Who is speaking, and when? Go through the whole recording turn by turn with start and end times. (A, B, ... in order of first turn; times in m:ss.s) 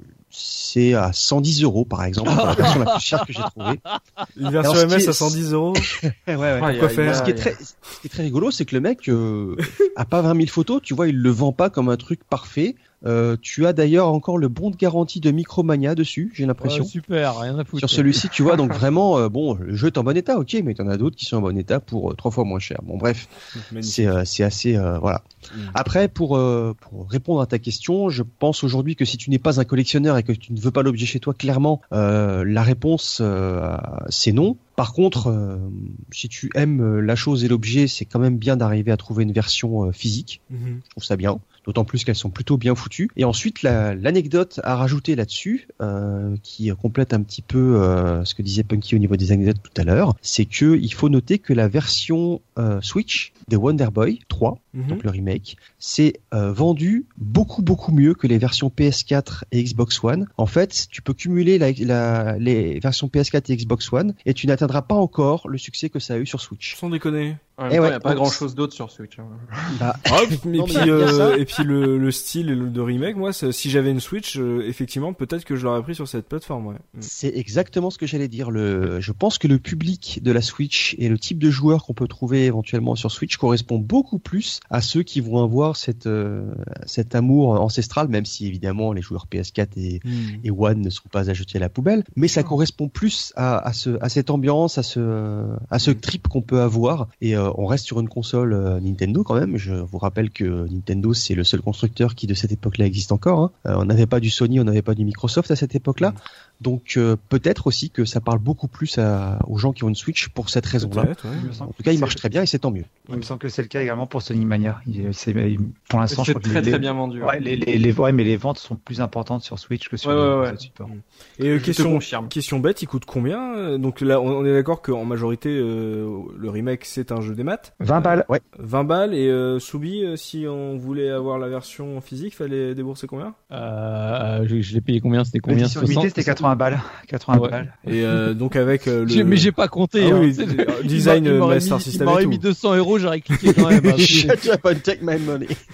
0:00.3-0:03.8 A
0:02.2-0:04.2 B
0:04.4-0:07.3 C
0:04.6-0:16.9 A
0:06.6-0:07.5 D
0:16.6-0:18.3 B
0:17.8-0:23.3 A
0:23.6-0:24.2 C
0:23.8-1:06.8 A
0:25.5-0:25.8 C
0:40.5-0:40.8 C
0:54.7-0:55.0 C
1:06.7-1:07.4 C
1:07.6-1:09.8 D
1:07.7-1:08.4 A
1:09.7-1:11.4 A
1:10.1-1:17.1 C
1:17.0-1:53.0 A
1:30.0-1:30.4 C
1:50.8-1:51.5 C
1:51.4-1:52.2 E
1:53.1-2:00.9 E
1:56.1-1:57.4 D
2:00.0-2:00.6 D
2:00.9-2:13.4 C
2:01.5-2:02.3 D
2:07.8-2:08.3 E
2:13.5-2:16.1 B
2:15.4-2:16.5 A
2:15.5-2:17.7 E
2:17.3-2:17.6 B
2:17.8-2:22.4 C
2:19.0-2:24.4 B
2:24.0-2:25.6 A
2:24.0-2:24.3 C